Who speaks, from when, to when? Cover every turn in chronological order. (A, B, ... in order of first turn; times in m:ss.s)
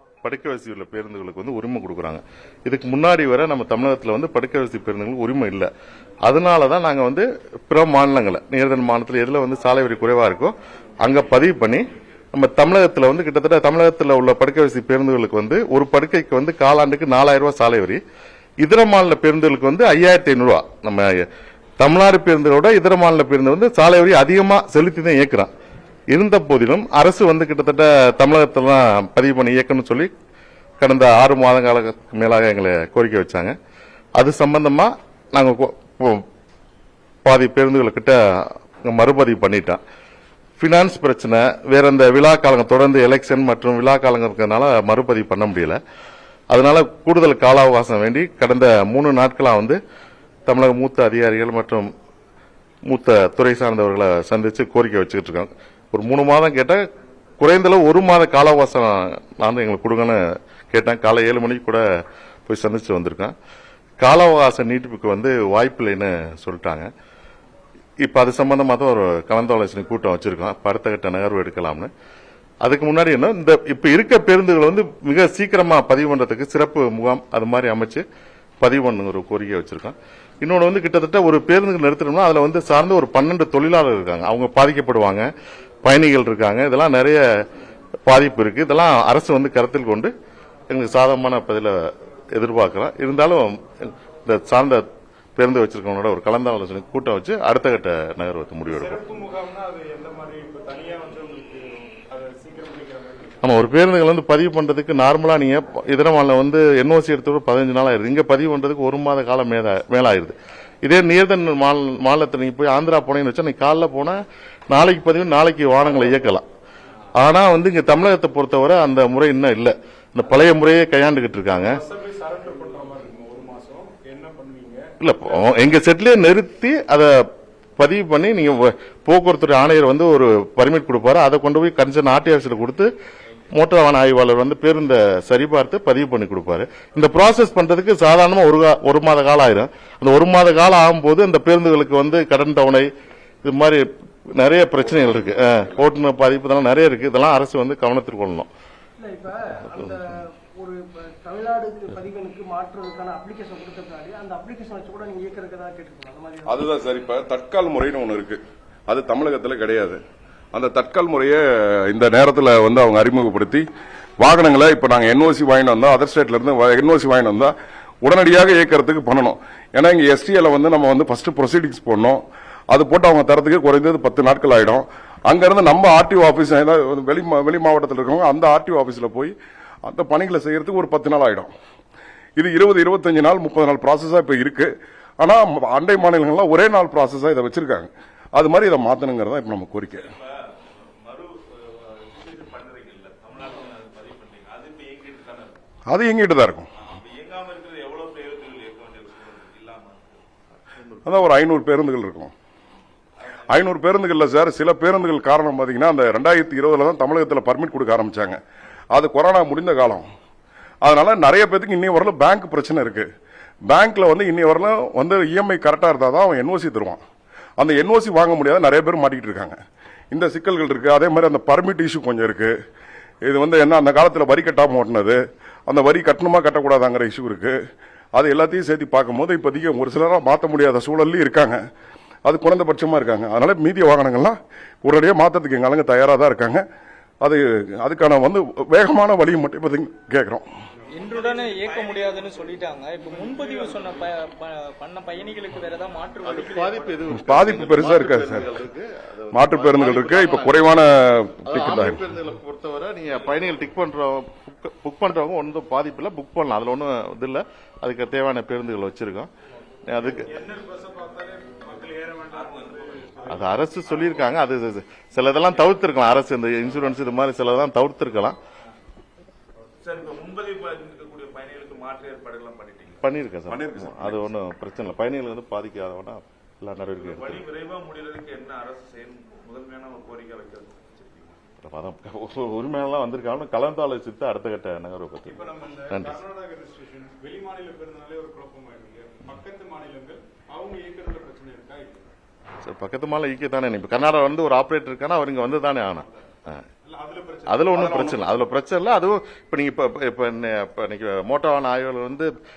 0:00.2-0:05.7 A
0:06.2-0:18.0 A
0:18.6-0:21.3 A
0:21.8-0:25.5 A
0:26.1-0:30.1 A
0:30.8-0:33.6 A
0:34.2-0:36.3 A
0:37.2-0:39.8 A
0:40.6-0:45.8 A
0:46.5-0:49.8 A
0:50.5-0:51.9 A
0:52.9-0:56.9 A
0:57.4-1:01.8 A
1:02.5-1:03.4 A
1:04.0-1:06.9 A
1:08.0-1:11.9 A
1:12.6-1:18.0 A
1:18.6-1:25.3 A
1:25.8-1:27.5 A
1:28.1-1:30.1 A
1:30.7-1:39.0 A
1:38.7-1:43.4 B
1:43.4-1:56.4 A
1:57.2-2:01.8 A
2:01.5-2:04.9 B
2:05.0-2:07.3 A
2:07.8-2:12.9 A
2:13.5-2:22.9 A
2:23.4-2:28.5 A
2:24.8-2:25.8 C
2:29.0-2:36.7 D
2:36.5-2:40.0 C
2:40.5-2:43.6 C
2:44.2-2:59.4 C
2:59.9-3:01.5 C
3:02.4-3:10.1 C
3:09.9-3:15.6 E
3:15.9-3:16.7 C
3:16.7-3:20.2 E
3:21.0-3:22.3 C
3:23.5-3:28.4 C
3:28.9-3:30.1 C
3:30.8-3:33.1 C
3:33.7-3:37.0 C
3:37.6-3:39.6 C
3:40.1-3:42.6 C
3:43.2-3:47.6 C
3:48.1-3:51.6 C
3:52.2-3:56.6 C
3:57.2-4:00.5 C
4:00.8-4:02.1 B
4:00.9-4:07.0 F
4:01.1-4:02.6 E
4:02.6-4:04.2 B
4:06.2-4:10.8 A
4:07.1-4:08.6 C
4:09.3-4:12.0 C
4:11.4-4:19.3 A
4:13.1-4:13.6 E
4:19.9-4:20.3 A
4:20.0-4:23.7 B
4:22.3-4:23.5 E
4:23.3-4:28.4 A
4:29.8-4:33.1 E
4:33.0-4:37.4 A
4:33.5-4:34.2 C
4:37.0-4:41.4 E
4:41.6-4:46.2 A
4:45.2-4:52.0 B
4:52.6-4:56.6 A
4:56.8-4:58.1 B
4:57.5-5:02.3 A
4:57.8-4:58.2 C